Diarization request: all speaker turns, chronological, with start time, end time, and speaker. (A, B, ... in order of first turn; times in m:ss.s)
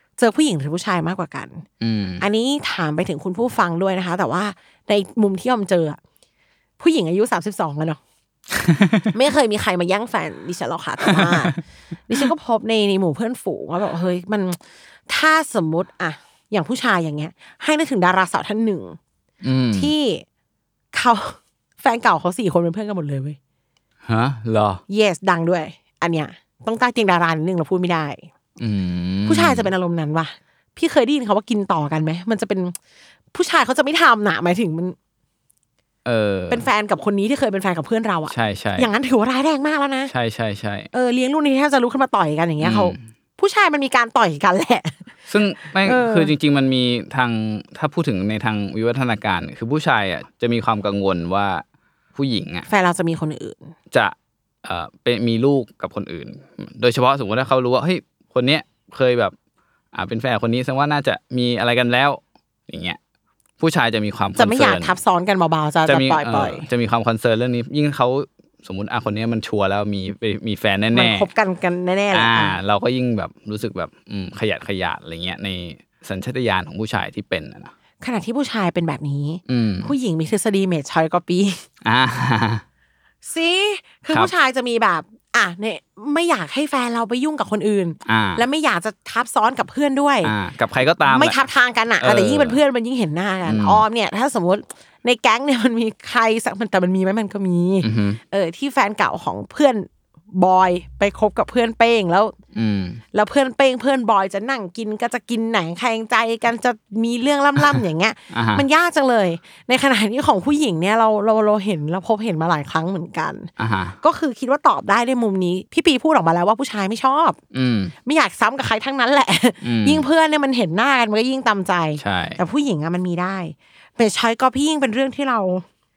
0:00.2-0:01.6 A
0:01.8-0:02.2 B
0:02.2-0:06.0 A
0:06.8-0:08.0 A
0:08.7-0:09.0 B
0:09.1-0:11.6 A
0:11.1-0:11.6 B
0:12.1-0:19.0 A
0:19.4-0:19.9 B
0:19.7-0:20.2 A
0:20.9-0:23.4 A
0:24.0-0:24.8 B
0:24.9-0:28.2 A
0:28.6-0:29.7 B
0:29.2-0:32.8 A
0:33.3-0:35.0 A
0:36.0-0:36.7 B
0:36.5-0:40.1 A
0:38.3-0:38.9 B
0:40.1-0:40.9 B
0:40.9-0:45.0 A
0:42.6-0:43.0 B
0:45.3-0:51.6 B
0:45.8-0:46.3 A
0:52.1-0:52.7 B
0:52.6-0:53.7 A
0:53.9-0:59.3 B
0:59.9-1:03.0 B
1:03.6-1:04.9 B
1:04.4-1:06.6 A
1:05.9-1:11.3 B
1:10.9-1:12.6 A
1:12.1-1:17.7 B
1:18.0-1:21.6 A
1:19.5-1:19.9 B
1:21.8-1:22.6 B
1:23.2-1:30.3 A
1:28.0-1:28.4 B
1:30.2-1:31.4 B
1:31.0-1:42.3 A
1:32.0-1:32.6 B
1:33.4-1:33.8 B
1:37.8-1:38.2 B
1:42.5-1:43.0 B
1:43.1-1:53.5 A
1:48.3-1:48.6 B
1:53.6-1:54.0 B
1:54.0-1:57.4 A
1:57.5-1:57.9 B
1:58.0-2:05.6 A
1:59.6-2:00.0 B
2:02.0-2:02.4 B